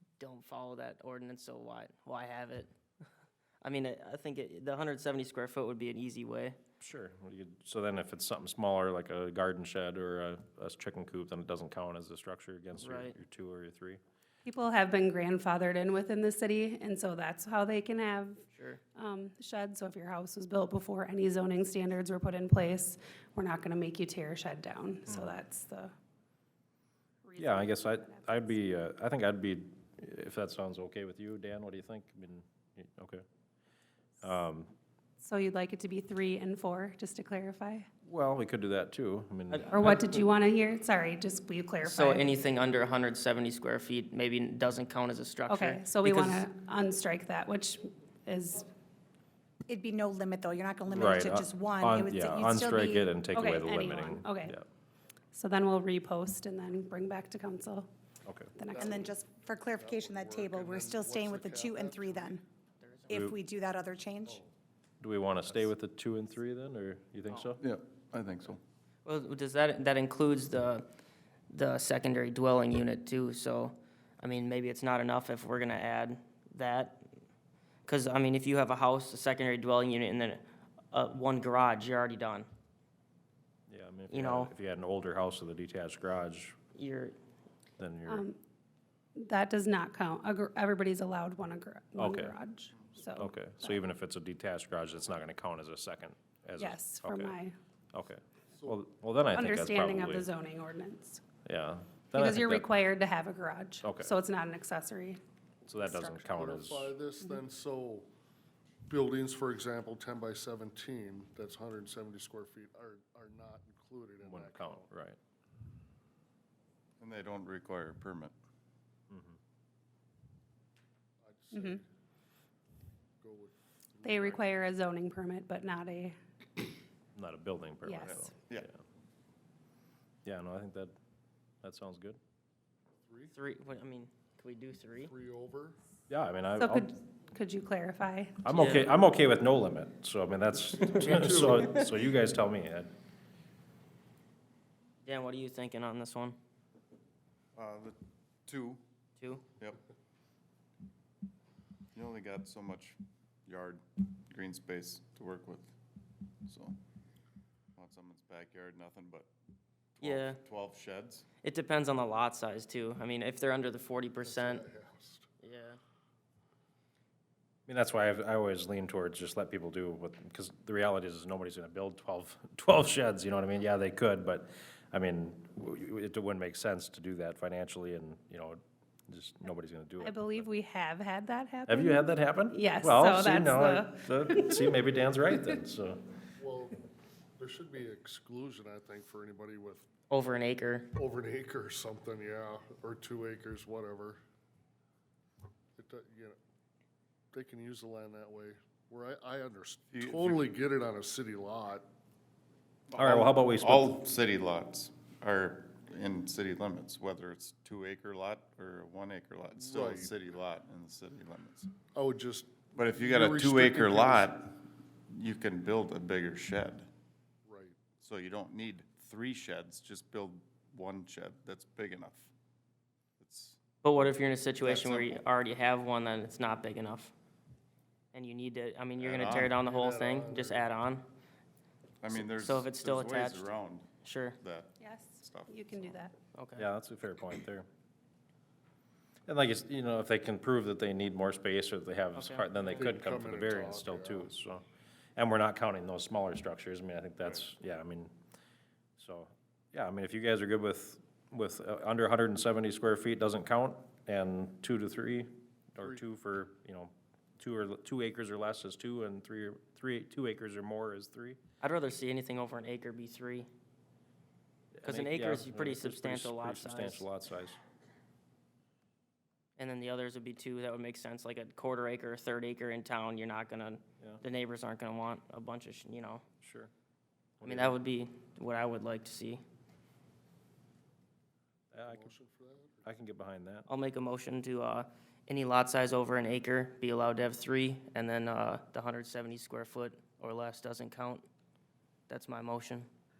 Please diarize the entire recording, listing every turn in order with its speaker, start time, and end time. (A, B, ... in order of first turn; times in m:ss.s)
0:00.2-0:02.7 A
0:03.6-0:06.6 A
0:06.8-0:14.0 B
0:12.8-0:13.2 A
0:14.4-0:18.4 C
0:18.5-0:18.8 A
0:19.0-0:25.9 C
0:25.1-0:25.4 B
0:27.2-0:28.7 C
0:27.4-0:33.2 B
0:34.2-0:34.7 B
0:35.2-0:37.9 C
0:38.0-0:40.0 B
0:39.5-0:39.9 A
0:39.7-0:42.3 C
0:41.8-0:46.4 A
0:45.5-0:48.7 C
0:49.7-0:53.2 D
0:50.9-0:54.6 B
0:53.3-0:54.5 C
0:55.3-0:57.9 C
0:58.2-0:58.5 B
0:58.6-0:58.9 C
0:58.6-1:02.4 E
0:58.8-1:02.4 D
1:02.8-1:03.3 A
1:03.1-1:04.4 D
1:03.1-1:03.4 B
1:04.2-1:04.5 E
1:05.0-1:07.6 B
1:07.6-1:08.6 F
1:09.0-1:10.8 A
1:11.5-1:17.0 A
1:17.8-1:22.5 A
1:23.7-1:26.6 B
1:24.1-1:24.5 A
1:26.7-1:27.1 A
1:27.8-1:28.2 B
1:28.1-1:28.4 C
1:29.2-1:33.8 C
1:32.0-1:32.3 B
1:33.1-1:37.4 B
1:36.6-1:37.6 C
1:37.9-1:40.3 B
1:39.3-1:41.2 C
1:41.4-1:42.7 B
1:42.1-1:45.2 C
1:43.8-1:44.1 B
1:45.7-1:46.9 B
1:45.8-1:46.2 C
1:46.3-1:48.1 E
1:48.9-1:54.9 E
1:54.2-1:55.2 B
1:57.0-1:58.3 F
1:59.1-1:59.4 B
2:01.2-2:01.8 E
2:01.5-2:01.8 C
2:03.2-2:04.5 E
2:04.0-2:06.1 C
2:07.1-2:08.7 B
2:07.8-2:08.2 C
2:08.0-2:08.7 F
2:10.2-2:10.9 B
2:11.6-2:12.2 B
2:13.0-2:13.3 E
2:13.3-2:15.1 A
2:15.0-2:15.8 E
2:16.1-2:16.9 B
2:16.6-2:18.4 C
2:18.4-2:22.9 B
2:18.5-2:18.8 A
2:20.9-2:21.8 E
2:25.0-2:26.4 A
2:27.6-2:28.8 F
2:31.9-2:35.7 F
2:36.5-2:36.8 F
2:37.8-2:39.3 F
2:40.0-2:41.2 F
2:40.0-2:40.4 A
2:41.4-2:44.6 A
2:44.2-2:45.3 E
2:45.4-2:45.8 A
2:47.7-3:00.5 B
3:00.0-3:04.7 C
3:01.7-3:06.0 B
3:06.4-3:06.8 E
3:07.4-3:09.8 E
3:10.1-3:10.9 A
3:10.9-3:14.2 E
3:15.8-3:16.4 E
3:17.3-3:21.8 E
3:19.9-3:20.5 F
3:22.9-3:31.7 F
3:23.0-3:24.0 B
3:29.5-3:30.1 E
3:31.9-3:34.3 E
3:32.7-3:34.6 F
3:35.1-3:36.9 F
3:37.4-3:37.8 E
3:38.0-3:42.3 F
3:43.2-3:43.6 F
3:43.8-3:47.1 A
3:44.6-3:45.2 F
3:48.1-3:51.0 A
3:49.0-3:49.6 F
3:49.5-3:50.7 E
3:52.0-3:56.1 F
3:52.1-3:53.5 A
3:54.0-3:54.4 A
3:54.8-3:56.1 C
3:56.3-3:56.6 A
3:56.6-3:57.7 B
3:59.3-4:04.6 B
4:02.1-4:02.9 A
4:02.7-4:04.3 E
4:05.2-4:08.1 B
4:09.0-4:21.4 B
4:21.6-4:23.5 A
4:24.8-4:27.6 B
4:24.8-4:27.0 A
4:29.6-4:36.2 A
4:36.4-4:36.7 B
4:37.4-4:37.7 B
4:37.4-4:39.4 A
4:41.7-4:42.1 B
4:41.8-4:42.8 E
4:42.8-4:43.7 B
4:43.7-4:51.2 A
4:52.1-4:52.9 A